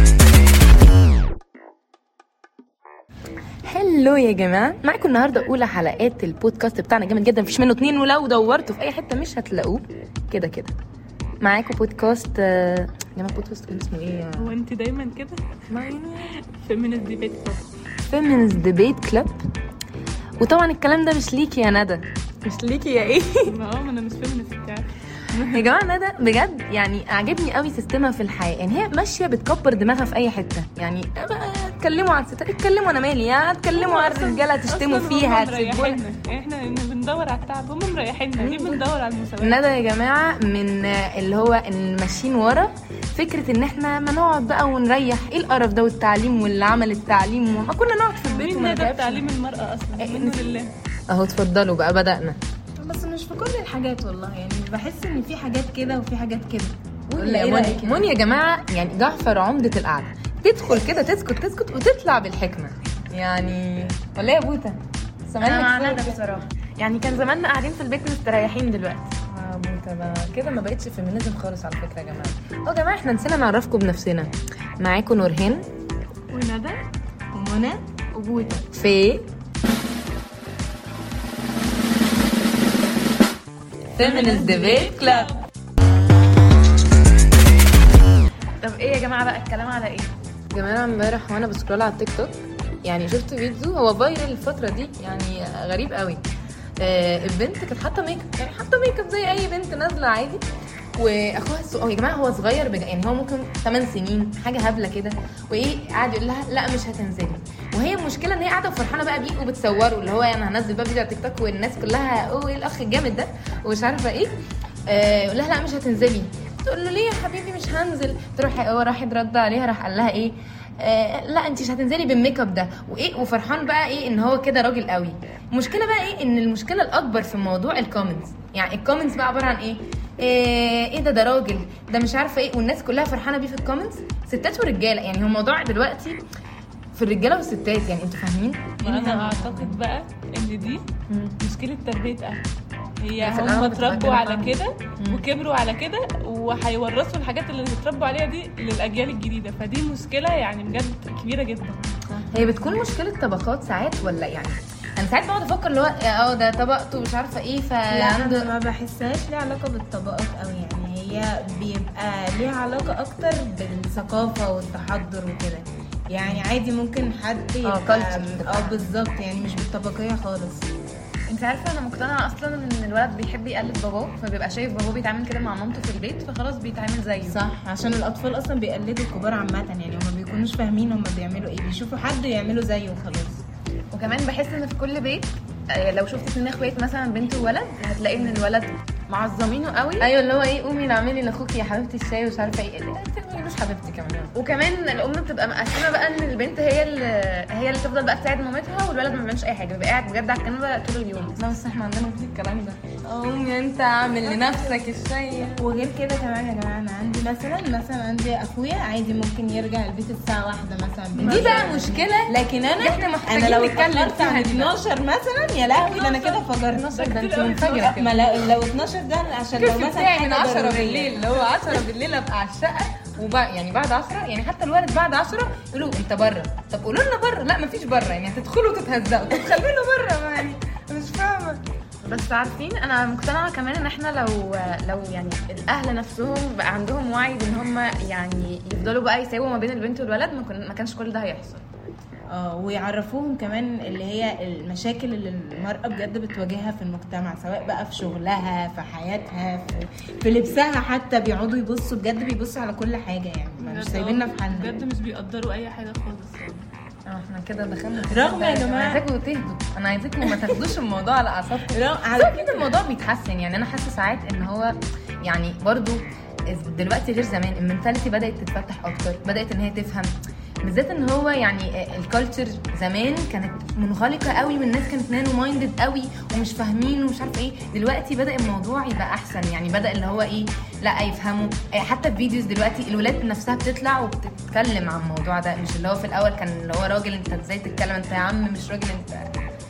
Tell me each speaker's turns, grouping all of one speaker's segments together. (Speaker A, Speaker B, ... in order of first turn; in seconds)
Speaker A: 3.6-10.8, 11.4-14.6, 15.7-16.3, 18.1-19.3, 20.4-23.5, 25.5-36.0, 38.4-38.8, 39.4-49.2, 50.0-50.4, 51.1-52.4, 57.1-64.8, 65.3-66.2, 69.2-75.6, 78.7-79.2, 84.0-85.3, 90.5-96.2, 96.8-100.4, 101.0-114.3, 114.9-136.2, 136.9-139.8, 141.1-141.3, 143.2-145.2, 152.3-158.5, 167.6-168.8, 190.0-194.3, 201.4-205.7, 211.2-214.7, 216.7-218.1, 219.6-231.6, 257.1-264.7, 265.2-270.1, 270.6-289.3
Speaker B: 14.4-15.4, 16.5-17.7, 23.4-25.6, 33.7-39.6, 48.2-50.7, 76.3-76.8, 78.1-78.6, 84.0-85.4, 138.8-140.8, 141.4-142.4, 143.0-151.9, 211.2-211.8, 215.7-218.0, 253.6-256.6
Speaker C: 52.8-58.0, 77.3-77.8, 152.1-152.7, 157.9-170.7, 177.3-183.4, 205.6-216.9, 217.7-221.4, 242.3-254.8, 258.1-259.0, 261.7-262.7
Speaker D: 65.4-69.1, 88.6-90.1, 171.3-177.3, 183.9-190.1, 194.3-201.3, 232.0-241.6